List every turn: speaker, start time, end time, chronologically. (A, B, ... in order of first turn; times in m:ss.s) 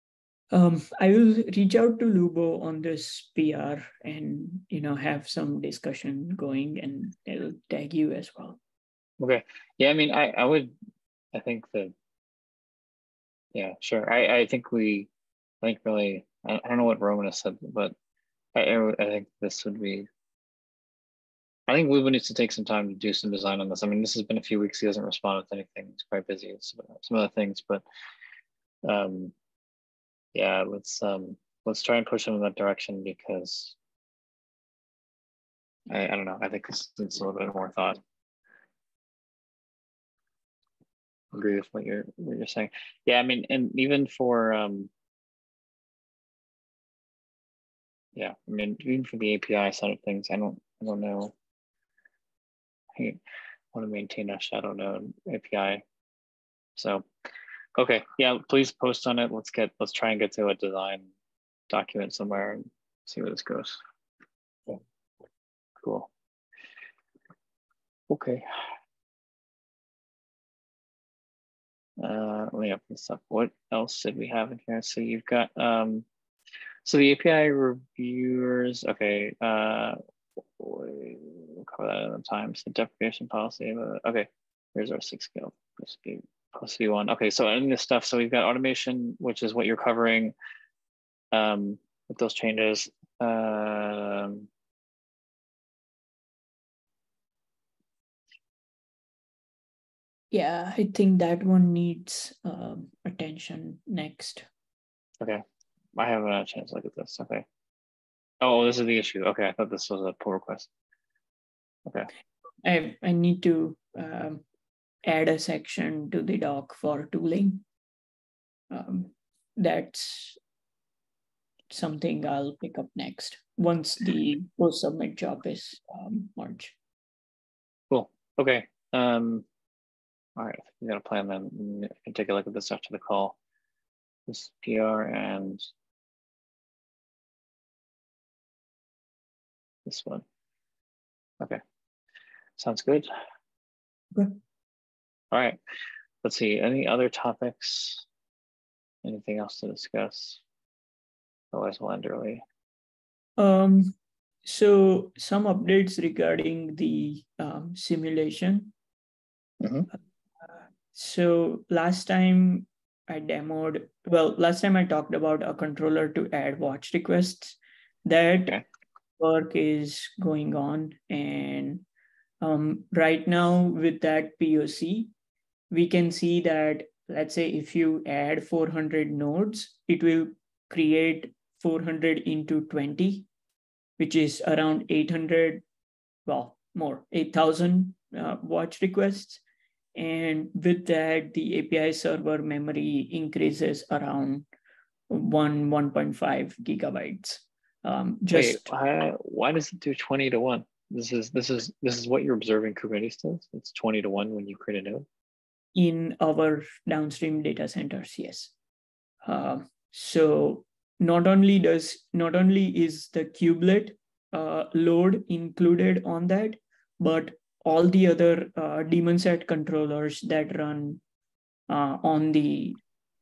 0:00.5-0:08.6 A
0:09.2-0:10.7 B
0:11.3-0:11.9 B
0:13.5-0:15.1 B
0:15.6-0:17.9 B
0:18.5-0:20.1 B
0:21.7-0:27.8 B
0:28.8-0:29.3 B
0:30.3-0:33.8 B
0:35.9-0:38.0 B
0:41.3-0:44.9 B
0:48.1-0:51.3 B
0:53.7-0:55.8 B
0:56.8-0:57.1 B
0:57.8-1:01.1 B
1:01.7-1:03.8 B
1:05.8-1:06.1 B
1:08.1-1:08.4 B
1:12.0-1:16.0 B
1:16.8-1:30.4 B
1:31.3-1:34.5 B
1:40.3-1:44.4 A
1:45.9-1:47.4 B
1:48.4-1:50.7 B
1:52.6-1:54.4 A
1:55.0-1:57.6 A
1:58.7-2:00.4 A
2:01.7-2:06.8 A
2:07.9-2:09.4 B
2:10.4-2:13.4 B
2:14.3-2:15.6 B
2:19.8-2:20.2 B
2:22.6-2:23.1 B
2:25.3-2:25.6 B
2:26.2-2:28.0 B
2:29.0-2:30.4 B
2:31.5-2:32.4 B
2:33.4-2:38.7 A
2:39.6-2:39.9 B
2:40.9-2:48.6 A
2:49.2-2:51.8 A
2:52.4-2:55.1 A
2:55.7-3:03.3 A
3:04.0-3:05.6 A
3:06.2-3:09.4 A
3:09.9-3:14.4 A
3:15.1-3:18.7 A
3:18.3-3:25.0 B
3:25.8-3:28.5 A
3:29.2-3:41.0 A
3:41.7-3:42.8 A